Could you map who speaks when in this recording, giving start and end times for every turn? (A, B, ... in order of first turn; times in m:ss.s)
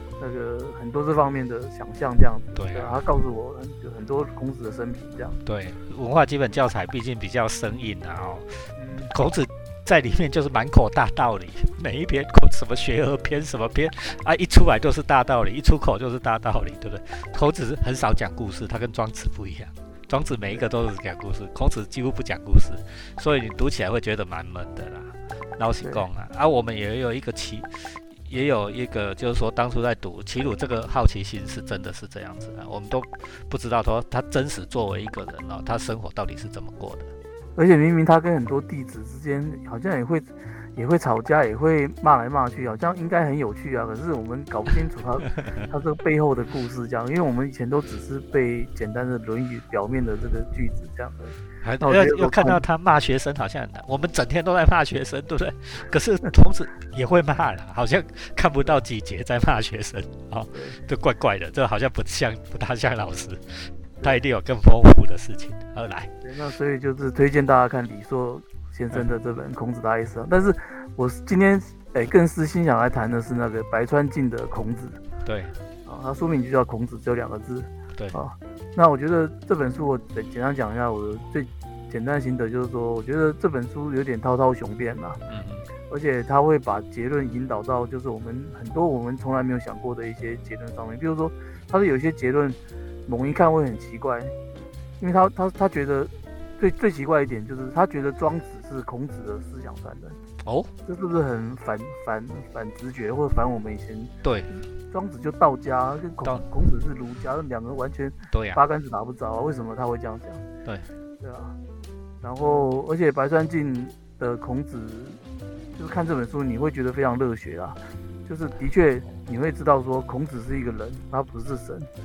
0:00.2-0:05.4 A
0:02.6-0:03.0 B
0:05.4-0:37.1 B
0:08.8-0:09.1 A
0:37.6-0:52.6 A
0:45.4-0:45.7 B
0:51.6-1:06.1 B
1:00.5-1:00.8 A
1:06.2-1:15.0 A
1:15.2-1:15.5 B
1:15.8-1:25.2 A
1:25.3-1:25.6 B
1:25.9-1:34.3 A
1:35.0-1:40.2 A
1:40.4-1:40.7 B
1:40.8-1:44.1 A
1:44.2-1:44.5 B
1:44.9-1:50.4 A
1:48.3-1:48.6 B
1:51.2-1:51.5 A
1:52.2-1:55.2 A
1:55.8-2:01.9 A